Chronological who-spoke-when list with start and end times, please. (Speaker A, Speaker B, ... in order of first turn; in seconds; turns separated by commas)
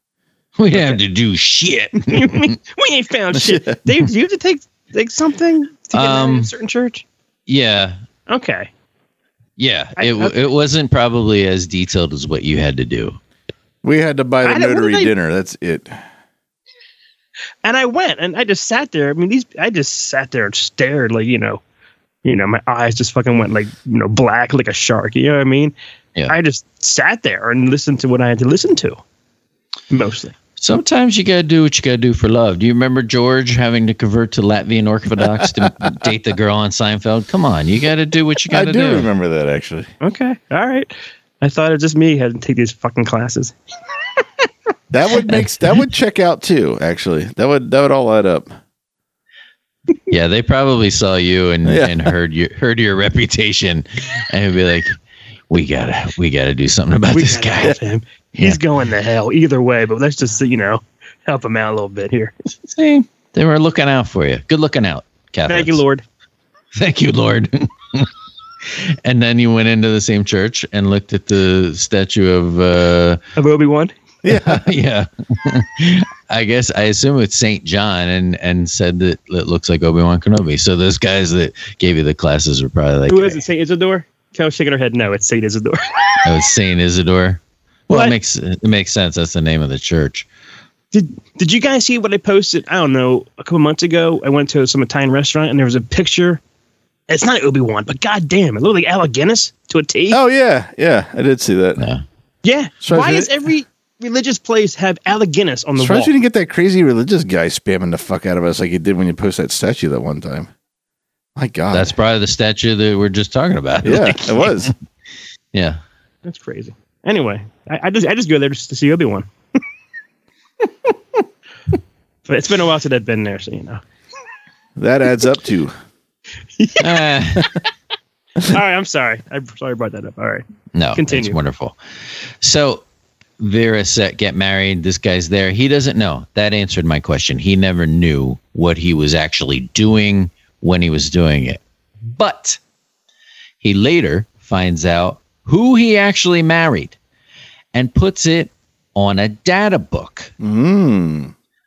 Speaker A: 0.6-2.5, Speaker B: 0.7-1.0, Speaker B: 2.1-7.0, Speaker C: 3.3-3.8, Speaker A: 5.9-6.5, Speaker A: 7.5-8.0, Speaker B: 8.3-8.7, Speaker A: 9.6-13.2, Speaker B: 10.0-10.3, Speaker C: 13.8-15.9, Speaker B: 14.4-15.1, Speaker B: 17.6-21.6, Speaker B: 22.2-25.8, Speaker B: 26.3-29.0, Speaker B: 29.9-30.4, Speaker A: 30.6-39.1, Speaker C: 38.5-39.9, Speaker B: 40.0-43.5, Speaker C: 44.9-48.5, Speaker A: 50.1-55.0, Speaker C: 51.6-52.0, Speaker A: 55.5-57.8, Speaker B: 57.1-62.3, Speaker A: 62.6-65.8, Speaker B: 65.5-66.0, Speaker A: 66.8-68.1, Speaker A: 68.7-73.2, Speaker B: 73.4-73.9, Speaker C: 74.2-74.7, Speaker A: 74.3-83.4, Speaker B: 83.1-86.2, Speaker A: 86.2-90.3, Speaker B: 87.9-88.2, Speaker B: 90.9-96.4, Speaker B: 97.1-100.2, Speaker C: 100.1-101.8, Speaker A: 101.8-102.0, Speaker B: 102.4-106.1, Speaker C: 102.8-103.3, Speaker C: 105.8-110.5, Speaker C: 111.4-111.9, Speaker A: 111.7-114.7, Speaker C: 113.8-114.7, Speaker A: 115.5-115.8, Speaker B: 116.2-119.3, Speaker B: 122.3-123.8, Speaker C: 124.8-125.7, Speaker B: 126.6-127.6, Speaker A: 126.8-127.5, Speaker B: 128.4-131.4, Speaker A: 130.7-131.8, Speaker A: 132.4-132.8, Speaker A: 133.4-142.6, Speaker A: 143.6-147.0, Speaker A: 147.7-150.3, Speaker C: 150.4-151.3